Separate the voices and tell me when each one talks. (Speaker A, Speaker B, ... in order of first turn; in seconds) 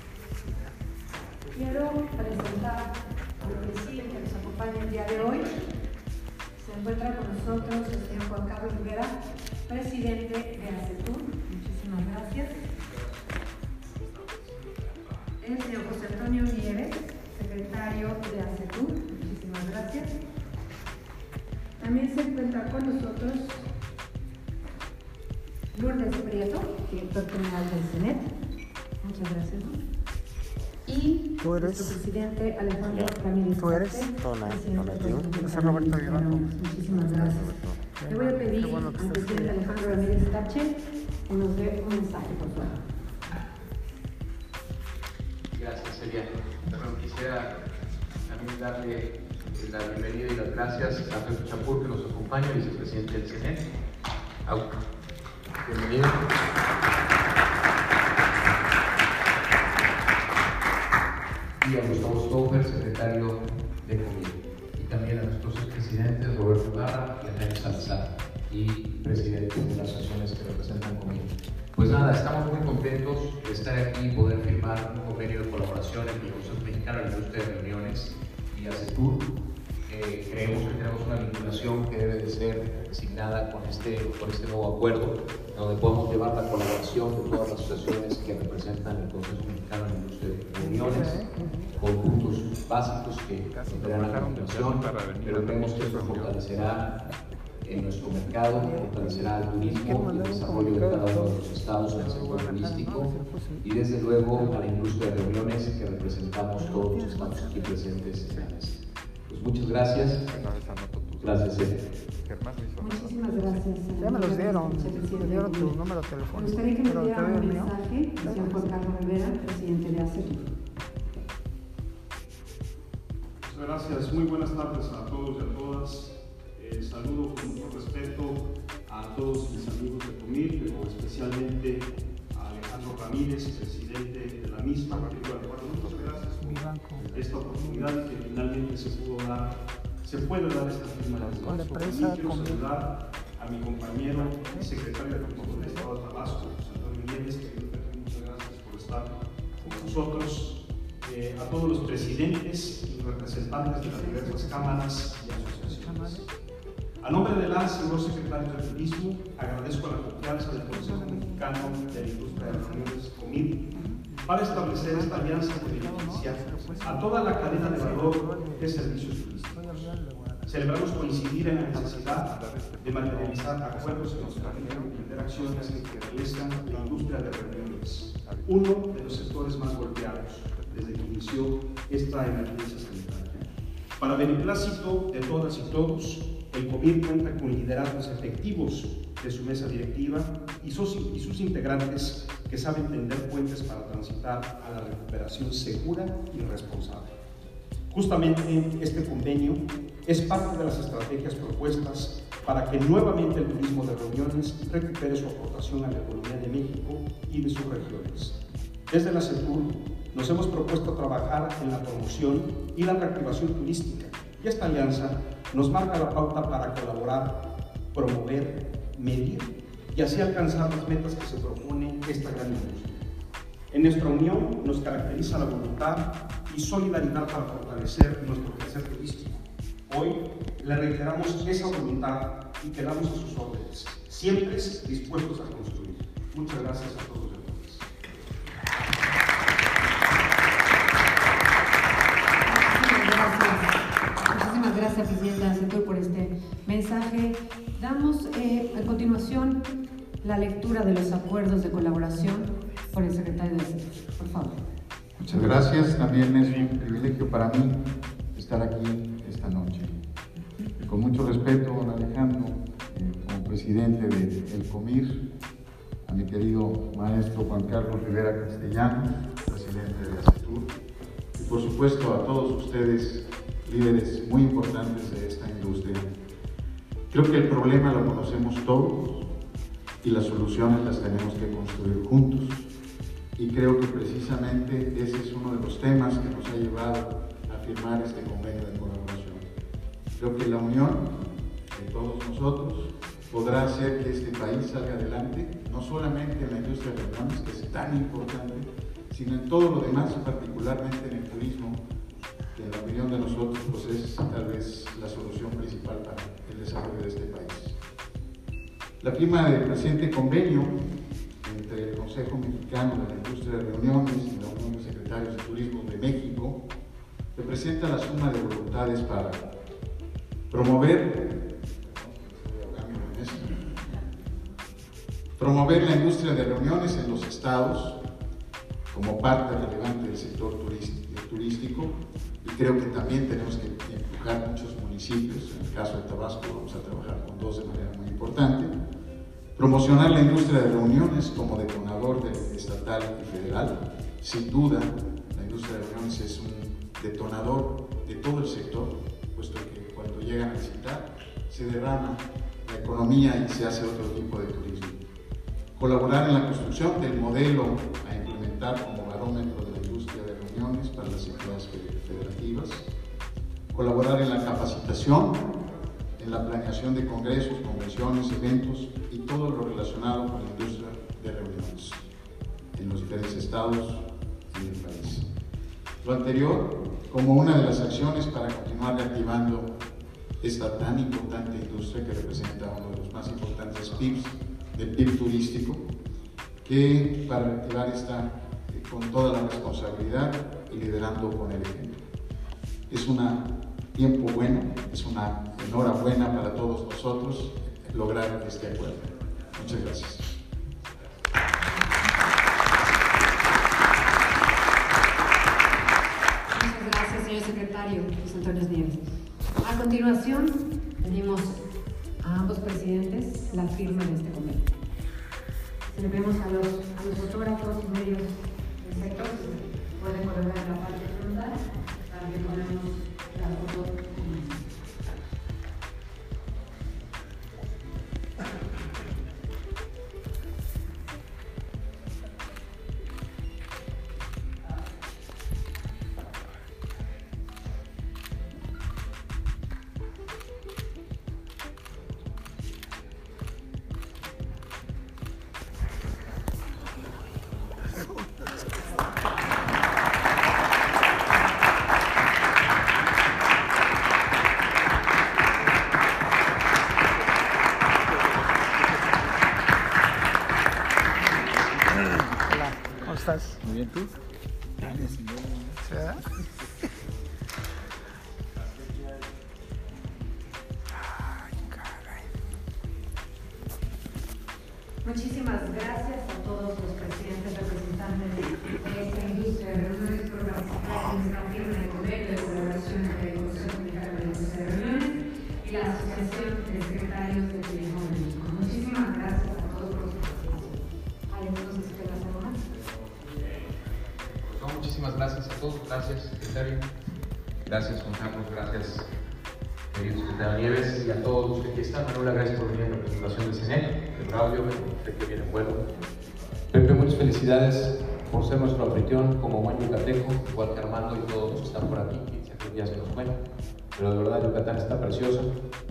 Speaker A: 1.5-5.5, 6.6-12.6, 15.4-20.2, 21.8-23.6, 25.7-28.3, 29.0-29.8, 30.9-40.8, 41.3-42.8, 112.8-115.8, 116.3-120.5, 242.4-243.7, 244.2-249.6, 250.2-254.6, 406.5-409.0, 409.6-411.6, 412.2-414.7, 415.9-424.6, 475.0-492.6
Speaker B: 36.0-36.4, 38.0-39.3, 91.0-91.6, 99.9-101.1, 102.7-103.6, 114.2-117.6, 136.6-137.1, 141.5-142.4, 154.3-154.7, 155.9-156.2, 160.7-161.4, 162.3-162.8, 163.8-168.7, 169.6-170.5, 462.7-463.6, 465.9-466.2
Speaker C: 45.5-47.5, 48.3-53.6, 55.6-56.3, 61.6-79.2, 79.9-91.2, 91.8-96.9, 97.6-108.8, 109.3-110.2, 111.2-111.7, 494.5-496.9, 497.7-499.1, 499.9-505.8, 506.7-513.4, 514.0-515.5
Speaker D: 110.3-113.2, 255.2-257.8, 258.4-259.9, 260.9-265.2, 266.1-270.7, 271.4-276.1, 277.1-279.3, 280.0-282.7, 283.4-289.4, 290.2-291.1, 291.7-301.8, 302.6-307.8, 309.0-310.7, 311.4-316.6, 317.4-319.5, 320.5-323.6, 325.4-328.0, 328.9-338.7, 339.6-355.0, 355.8-362.9, 363.7-365.5, 366.2-372.1, 372.8-375.2, 376.0-379.7, 380.4-385.9, 386.6-392.0, 392.9-400.3
Speaker E: 123.4-156.3, 157.0-169.9, 170.5-183.5, 184.0-197.1, 197.9-223.0, 223.7-237.9